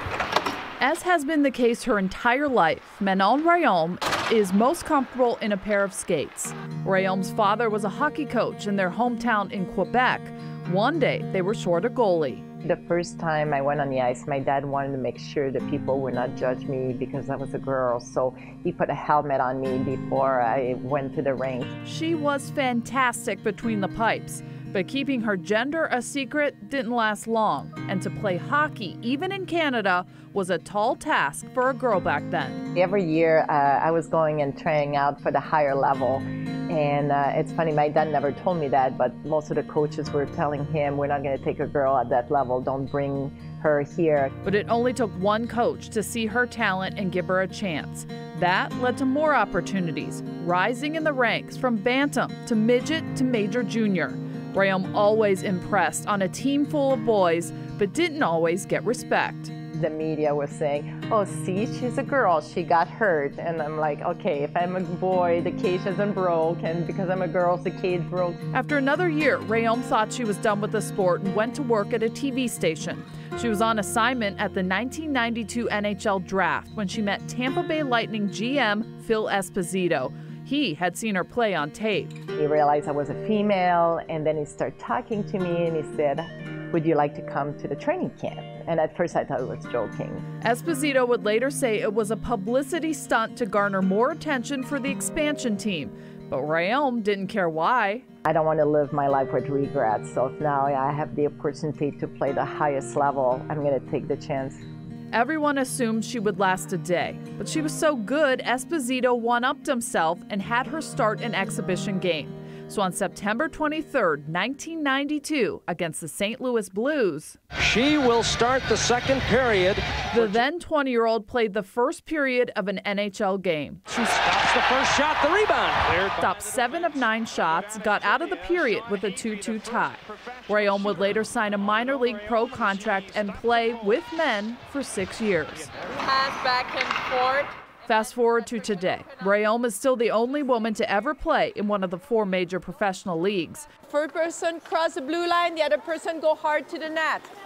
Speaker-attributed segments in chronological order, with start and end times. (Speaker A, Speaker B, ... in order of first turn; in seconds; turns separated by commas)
Speaker A: 0.8-12.4, Speaker B: 12.6-21.8, Speaker A: 21.8-32.7, Speaker B: 32.8-44.3, Speaker A: 44.4-59.5, Speaker B: 59.7-68.4, Speaker A: 68.5-82.2, Speaker B: 82.3-90.2, Speaker A: 90.4-98.1, Speaker B: 98.2-104.6, Speaker A: 105.1-117.4, Speaker C: 117.5-120.4, Speaker A: 120.1-124.0, Speaker C: 123.9-133.8, Speaker A: 126.2-135.7, Speaker D: 137.0-137.4, Speaker A: 137.9-143.7, Speaker D: 143.9-145.4, Speaker D: 146.0-147.2